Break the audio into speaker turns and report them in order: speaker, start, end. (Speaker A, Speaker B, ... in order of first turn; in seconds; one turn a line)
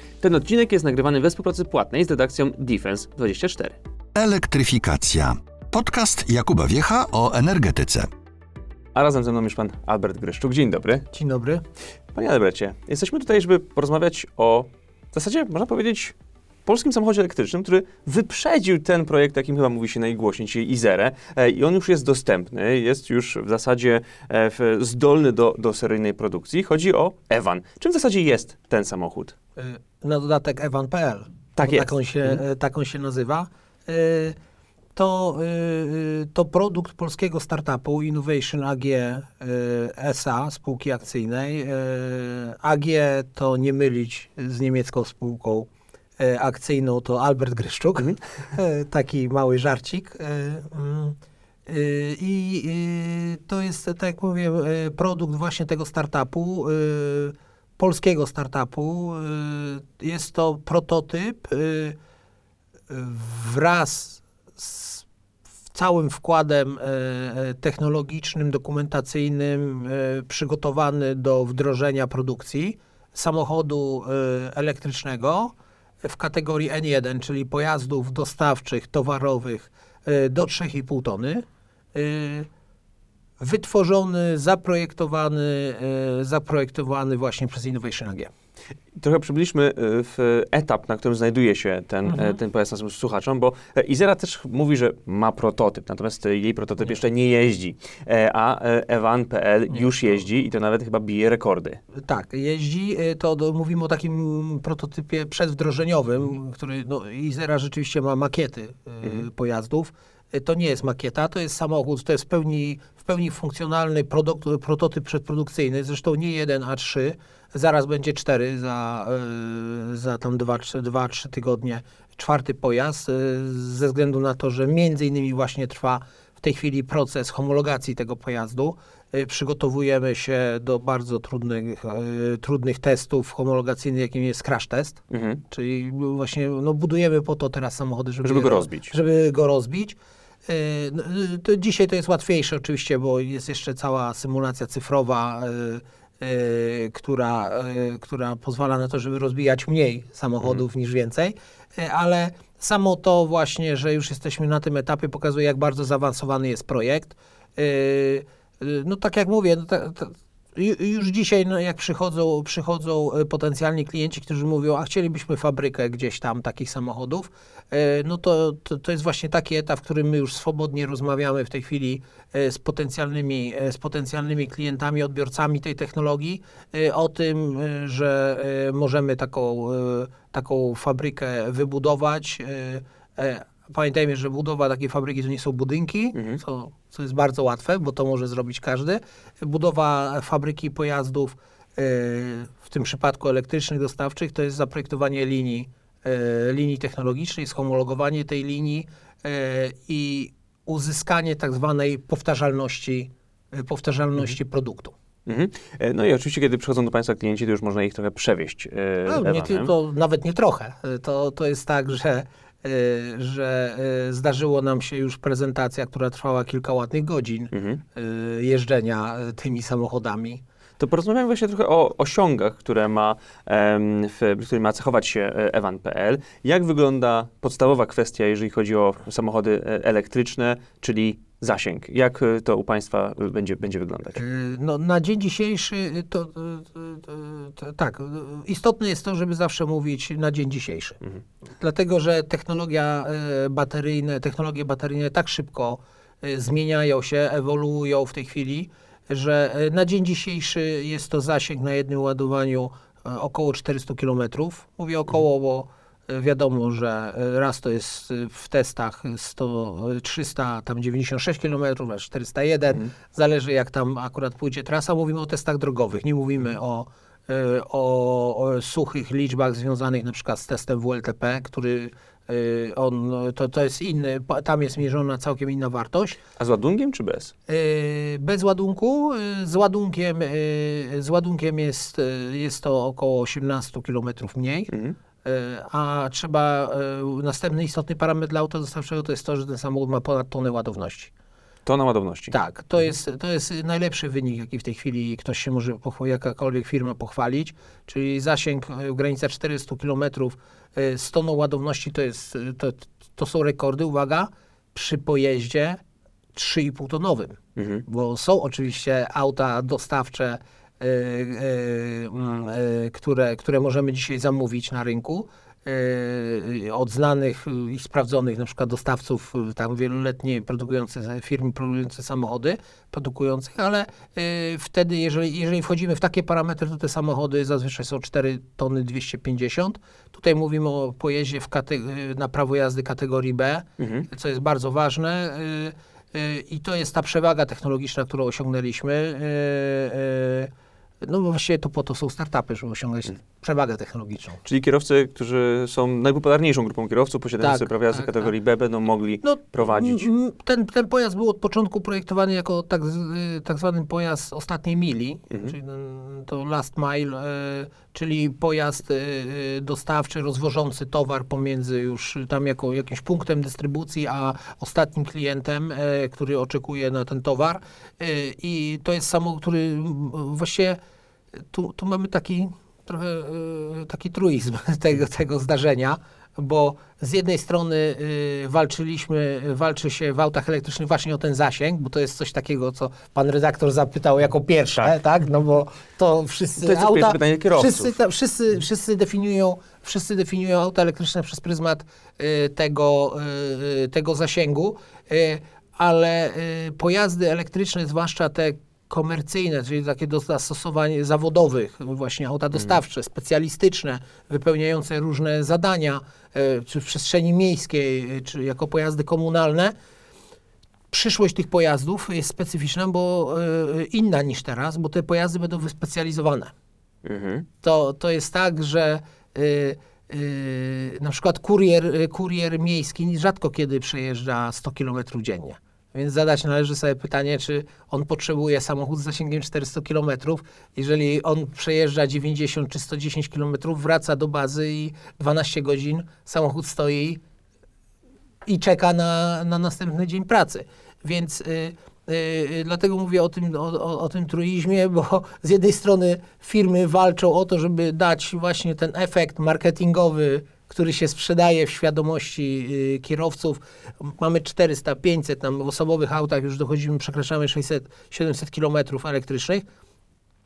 Speaker A: 0.2-3.8
Speaker B: 4.2-8.1
Speaker A: 8.9-11.1
Speaker C: 11.1-11.6
Speaker A: 12.1-16.1
Speaker A: 16.7-29.4
Speaker C: 29.6-34.4
Speaker A: 31.6-32.4
Speaker C: 35.0-45.7
Speaker C: 46.2-62.0
Speaker C: 62.9-65.0
Speaker C: 65.7-81.4
Speaker C: 82.0-82.5
Speaker C: 83.4-88.3
Speaker A: 89.0-101.8
Speaker C: 92.1-92.4
Speaker C: 102.0-204.9
Speaker A: 135.1-135.4
Speaker A: 138.2-138.9
Speaker A: 186.1-186.4
Speaker A: 205.2-209.7
Speaker C: 209.1-220.4
Speaker A: 217.5-217.8
Speaker A: 220.8-234.2
Speaker C: 234.2-241.0
Speaker C: 241.6-276.2
Speaker A: 276.4-277.3
Speaker C: 277.5-284.7
Speaker A: 284.7-284.9
Speaker C: 285.2-291.1
Speaker A: 291.6-292.9
Speaker C: 292.3-305.8
Speaker C: 306.3-340.5
Speaker A: 307.6-307.8
Speaker A: 333.8-334.1
Speaker C: 341.0-344.4
Speaker A: 344.4-350.1
Speaker C: 347.4-348.3
Speaker C: 349.2-370.8
Speaker C: 371.5-409.7
Speaker A: 386.6-387.9
Speaker C: 410.9-416.5
Speaker A: 417.1-417.5
Speaker C: 417.6-437.2
Speaker C: 438.4-459.6